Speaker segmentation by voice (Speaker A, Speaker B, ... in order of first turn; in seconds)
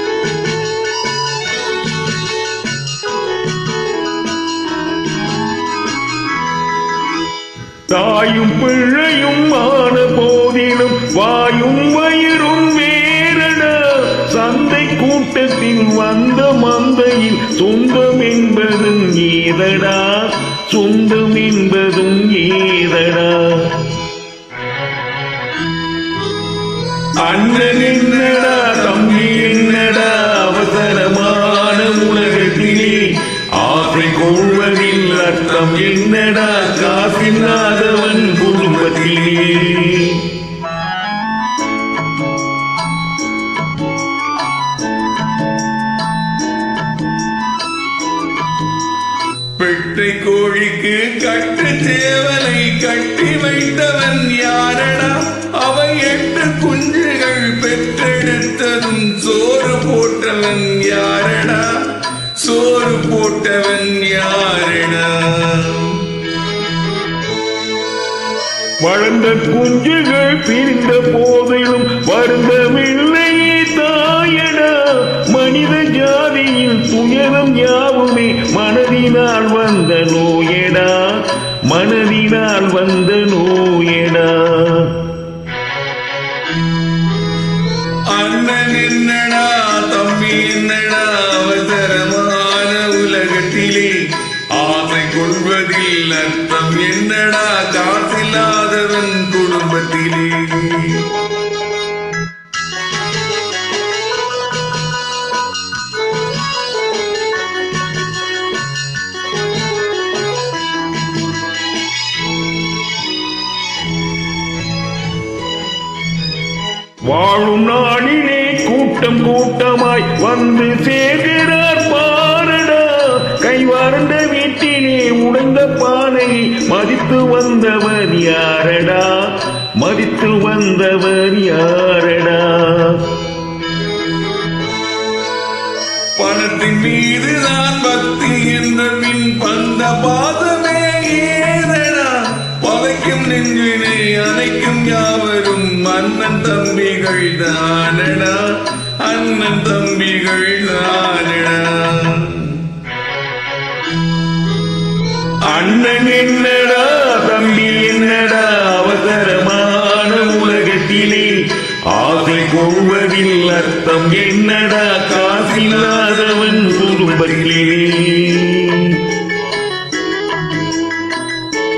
Speaker A: 7.9-23.8, 27.2-40.3, 68.8-85.0, 117.0-133.1, 155.4-169.0
Speaker B: 27.3-30.1, 31.9-32.6, 34.8-35.4, 36.7-37.7, 49.6-61.8, 62.4-66.0, 88.1-101.1, 136.2-152.6, 165.2-167.5